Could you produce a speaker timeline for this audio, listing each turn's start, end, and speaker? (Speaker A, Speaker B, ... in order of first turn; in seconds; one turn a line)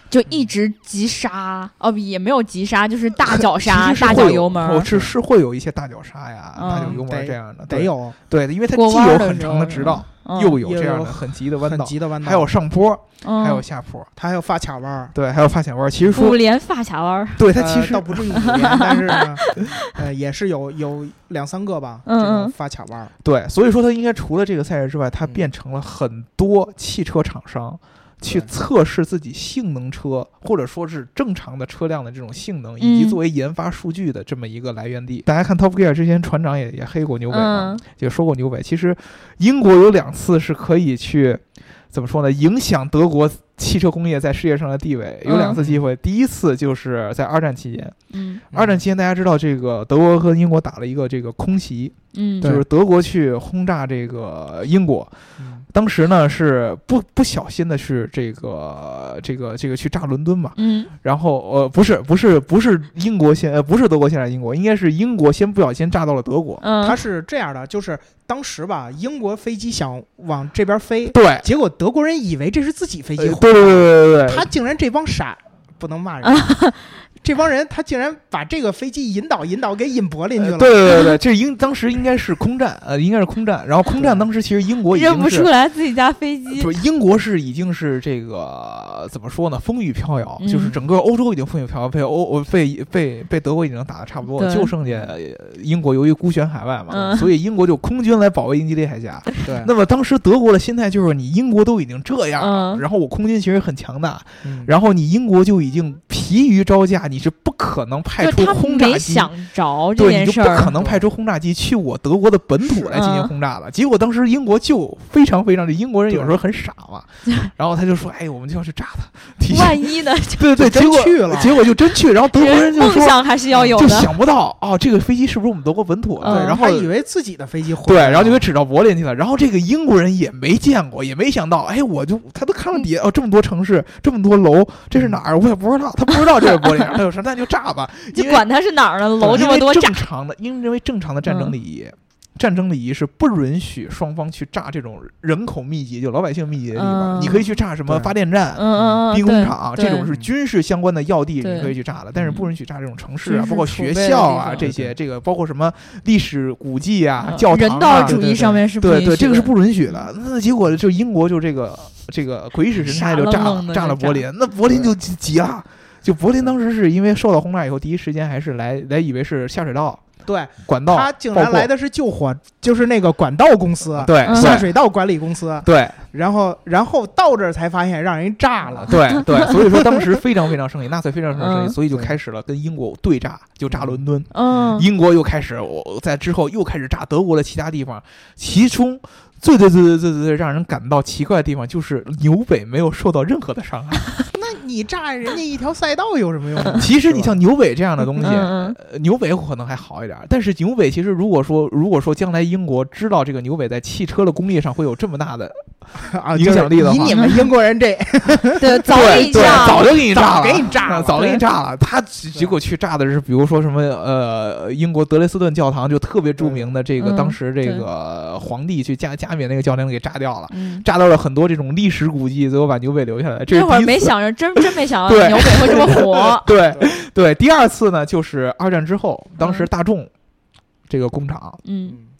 Speaker A: 0.1-4.9
Speaker B: 3.2-14.1
Speaker C: 4.0-5.1
Speaker A: 6.5-6.9
Speaker C: 6.7-8.2
Speaker A: 8.7-10.6
Speaker C: 10.6-12.5
Speaker A: 13.2-13.6
Speaker C: 14.2-15.1
Speaker B: 15.1-16.4
Speaker A: 16.1-17.5
Speaker B: 17.4-18.4
Speaker C: 17.5-23.1
Speaker A: 18.3-19.9
Speaker A: 22.1-22.5
Speaker B: 23.2-48.0
Speaker C: 28.2-28.5
Speaker A: 32.8-33.2
Speaker A: 37.3-37.8
Speaker A: 45.2-45.6
Speaker C: 45.5-45.8
Speaker A: 48.1-48.4
Speaker C: 48.5-48.8
Speaker B: 48.5-55.1
Speaker A: 52.1-52.5
Speaker C: 55.4-55.6
Speaker B: 55.7-66.6
Speaker A: 60.5-60.9
Speaker A: 66.6-67.0
Speaker C: 66.8-76.5
Speaker B: 71.1-71.5
Speaker B: 73.2-74.5
Speaker A: 76.2-76.9
Speaker C: 77.2-80.9
Speaker B: 80.4-85.5
Speaker C: 83.9-84.2
Speaker A: 84.9-86.8
Speaker B: 86.5-109.3
Speaker A: 90.4-90.7
Speaker A: 94.4-94.7
Speaker C: 94.8-95.1
Speaker A: 96.9-97.3
Speaker C: 99.4-99.7
Speaker A: 102.4-102.8
Speaker C: 104.4-104.7
Speaker A: 108.2-110.7
Speaker B: 109.9-126.9
Speaker C: 110.7-111.0
Speaker A: 112.6-113.3
Speaker C: 116.1-116.3
Speaker A: 119.5-120.5
Speaker C: 120.5-121.5
Speaker A: 122.3-124.1
Speaker C: 126.2-128.4
Speaker A: 126.2-126.6
Speaker B: 127.8-138.5
Speaker C: 134.9-135.2
Speaker A: 136.4-136.9
Speaker A: 138.1-140.0
Speaker B: 139.2-170.0
Speaker A: 141.2-141.5
Speaker A: 146.7-147.5
Speaker C: 147.9-148.1
Speaker A: 148.5-150.1
Speaker A: 151.4-151.7
Speaker A: 153.2-154.7
Speaker C: 154.6-154.9
Speaker A: 157.2-159.5
Speaker C: 157.9-158.6
Speaker A: 162.8-164.2
Speaker C: 170.2-180.1
Speaker B: 170.6-171.7
Speaker B: 174.0-174.7
Speaker A: 174.2-174.6
Speaker B: 175.6-176.0
Speaker B: 178.7-194.1
Speaker A: 181.3-181.8
Speaker C: 181.9-182.2
Speaker C: 183.7-184.7
Speaker A: 184.3-184.9
Speaker C: 194.3-197.4
Speaker B: 196.8-205.6
Speaker A: 198.2-198.8
Speaker C: 205.9-211.4
Speaker B: 206.3-207.2
Speaker A: 207.1-207.4
Speaker A: 208.6-209.9
Speaker B: 208.9-230.1
Speaker C: 216.4-216.7
Speaker A: 217.0-217.8
Speaker A: 220.5-220.8
Speaker A: 223.5-226.5
Speaker C: 226.7-226.9
Speaker A: 229.4-229.7
Speaker B: 230.9-231.6
Speaker A: 231.6-232.0